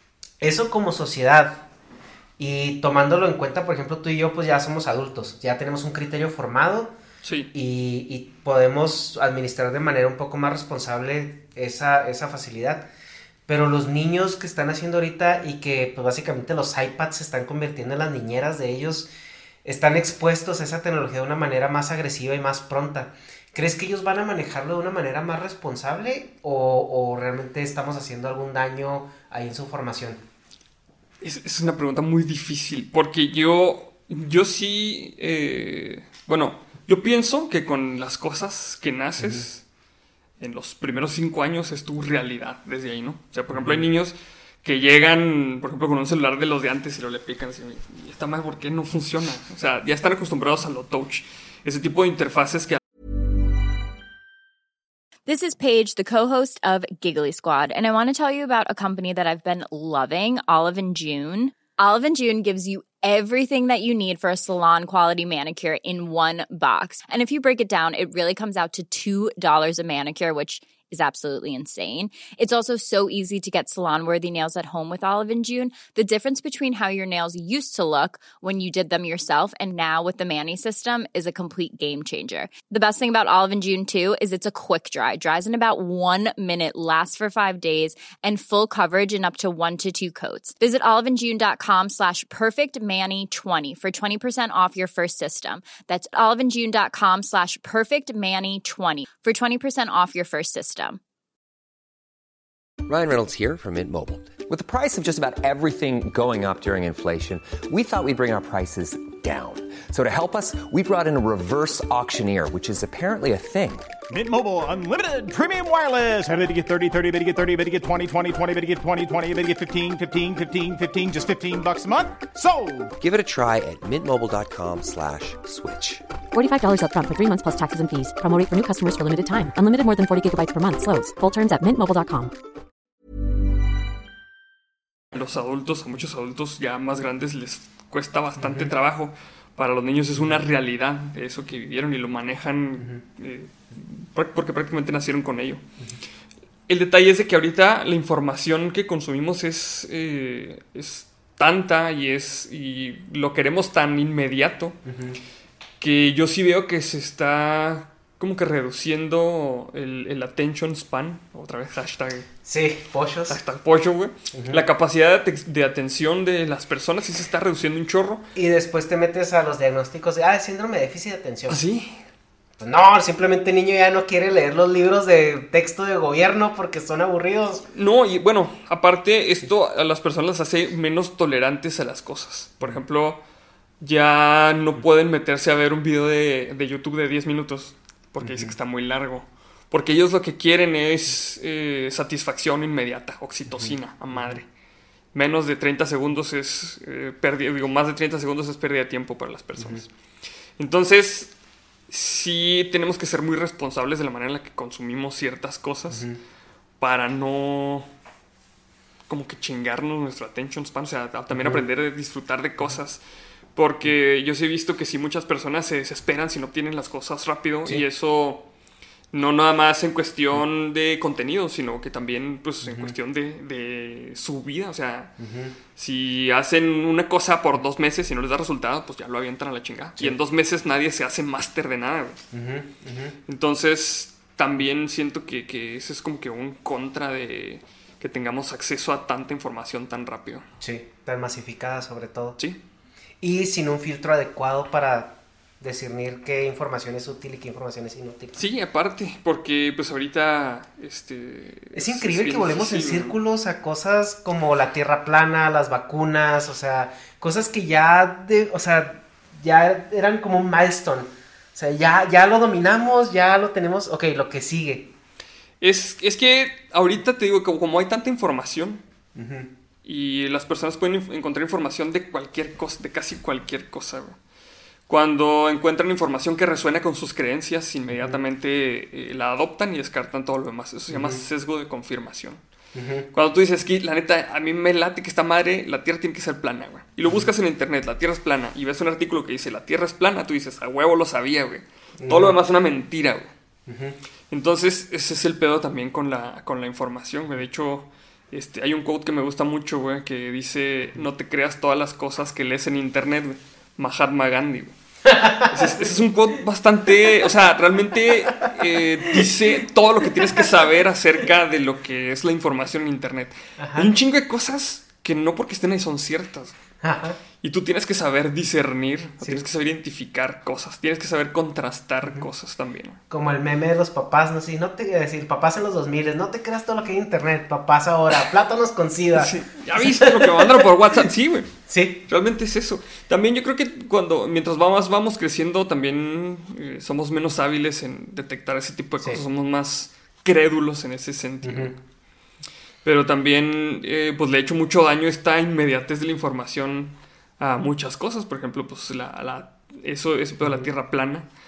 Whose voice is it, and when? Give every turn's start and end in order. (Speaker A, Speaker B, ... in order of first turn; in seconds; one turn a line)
Speaker A: 0.4-1.6
Speaker A: 2.4-6.9
Speaker B: 7.2-7.5
Speaker A: 7.5-12.9
Speaker A: 13.5-19.1
Speaker A: 19.6-30.2
Speaker B: 31.2-39.6
Speaker A: 39.2-39.4
Speaker B: 40.4-52.8
Speaker A: 43.5-43.8
Speaker C: 55.2-101.0
Speaker D: 102.8-113.9
Speaker E: 114.1-122.9
Speaker D: 123.0-126.0
Speaker F: 126.3-132.3
Speaker B: 135.1-145.6
Speaker A: 138.4-138.7
Speaker B: 146.7-154.8
Speaker A: 154.8-155.2
Speaker B: 155.8-162.3
Speaker A: 162.4-163.4
Speaker B: 163.3-168.2
Speaker A: 164.3-164.6
Speaker A: 168.3-171.6
Speaker B: 171.5-172.0
Speaker A: 172.6-177.7
Speaker B: 177.7-183.2
Speaker B: 183.8-194.4
Speaker A: 188.2-188.5
Speaker A: 193.5-194.4
Speaker B: 195.1-199.9
Speaker A: 199.6-199.8
Speaker B: 200.6-201.3
Speaker B: 201.9-206.1
Speaker A: 205.9-206.2
Speaker B: 206.8-207.9
Speaker B: 209.1-213.0
Speaker A: 211.3-211.6
Speaker B: 213.5-218.4
Speaker B: 219.1-225.1
Speaker A: 222.6-222.9
Speaker A: 225.2-225.5
Speaker B: 225.8-232.2
Speaker A: 232.3-233.2
Speaker B: 233.3-240.4
Speaker A: 240.6-242.4
Speaker A: 243.2-248.4
Speaker B: 248.3-253.1
Speaker A: 251.7-264.9
Speaker B: 265.6-268.8
Speaker A: 269.1-269.5
Speaker B: 269.8-274.1
Speaker B: 274.9-282.4
Speaker A: 277.9-278.2
Speaker A: 280.9-281.2
Speaker A: 282.7-283.1
Speaker B: 283.1-293.3
Speaker A: 292.0-292.4
Speaker A: 293.7-294.0
Speaker B: 294.3-304.7
Speaker A: 305.1-306.0
Speaker B: 305.5-316.5
Speaker A: 313.6-313.9
Speaker A: 316.8-317.2
Speaker B: 317.4-323.0
Speaker A: 323.1-330.7
Speaker B: 329.2-341.8
Speaker A: 331.7-332.0
Speaker A: 341.4-341.8
Speaker B: 342.8-351.3